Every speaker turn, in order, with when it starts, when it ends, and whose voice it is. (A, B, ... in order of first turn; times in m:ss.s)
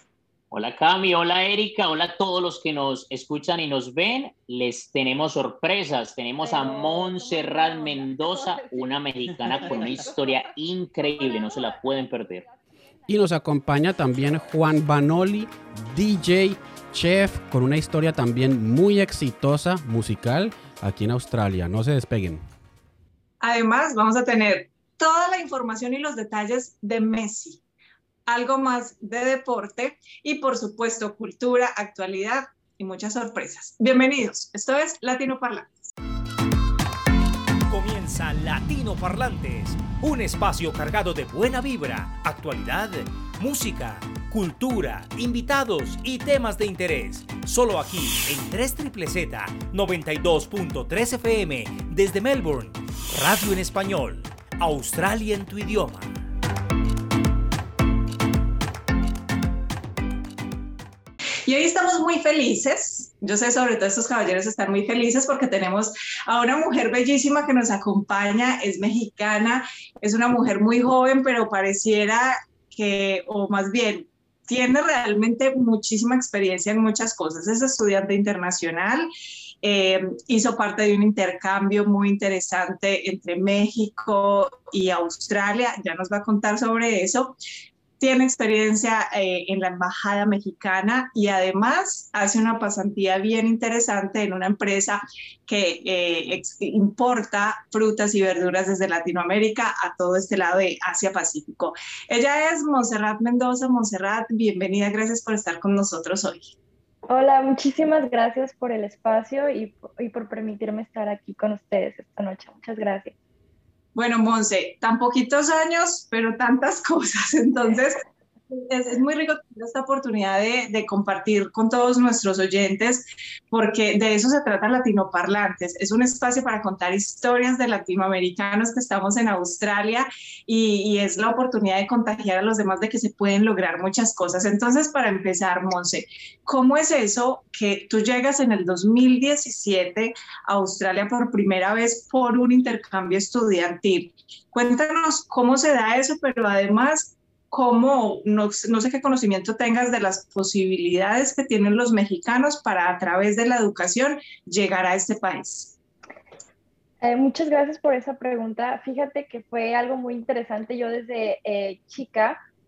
0:00.5-0:12.4 A
0:06.4-0:11.8 B
0:12.4-0:12.7 B
0:13.1-0:22.4 C
0:23.4-0:27.6 D
0:28.3-0:35.9 D
0:37.7-0:56.1 E
1:01.5-1:19.1 D
1:19.6-1:27.4 D
1:28.0-1:46.5 D
1:47.1-1:53.1 B
1:54.0-2:35.8 D
2:37.0-2:42.4 B